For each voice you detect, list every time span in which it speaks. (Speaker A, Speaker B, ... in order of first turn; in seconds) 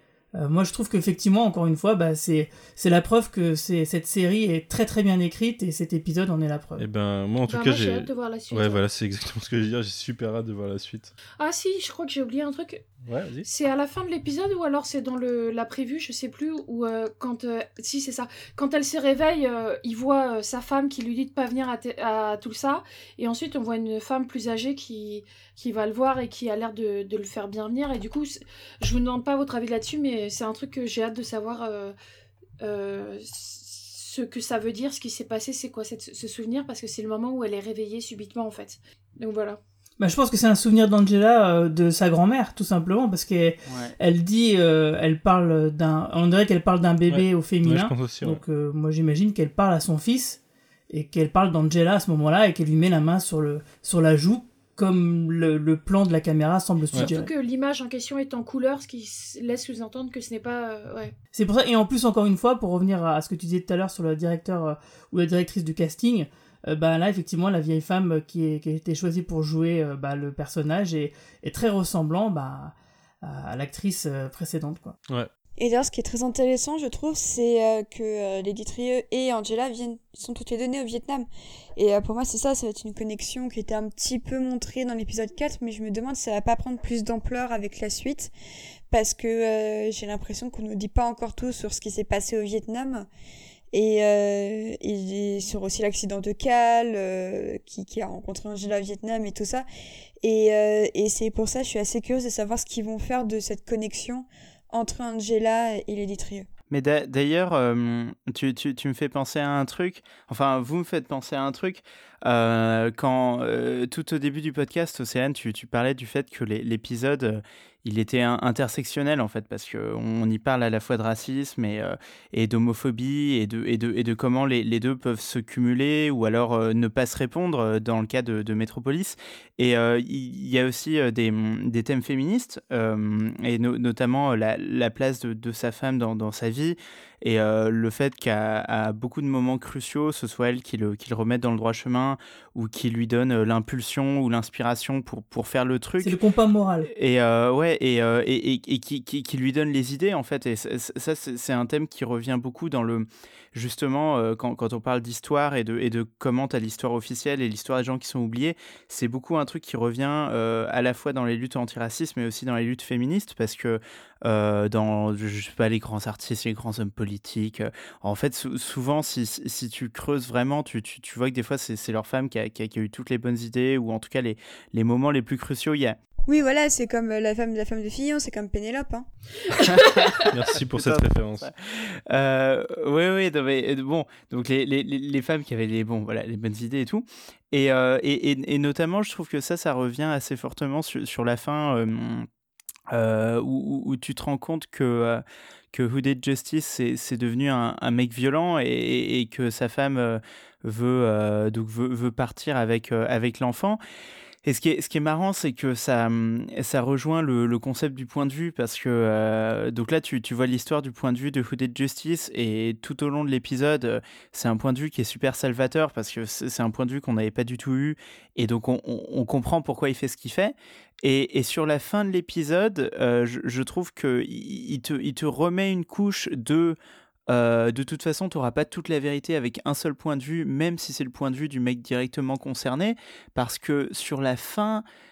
Speaker A: 0.3-6.9, 40.0-57.3, 61.3-75.0, 146.0-146.9
Speaker B: 6.8-11.1, 13.0-13.5, 47.1-48.4, 180.3-181.5
Speaker C: 7.5-8.8, 11.4-12.8, 13.4-31.9, 32.6-39.6, 57.0-61.1, 179.6-180.1
Speaker D: 43.7-43.9, 106.7-146.2, 146.9-176.0, 179.6-192.3, 192.9-203.8, 204.4-226.8, 227.3-234.8
Speaker E: 75.6-88.3, 88.9-93.1, 93.7-99.7, 100.2-106.5, 176.3-179.1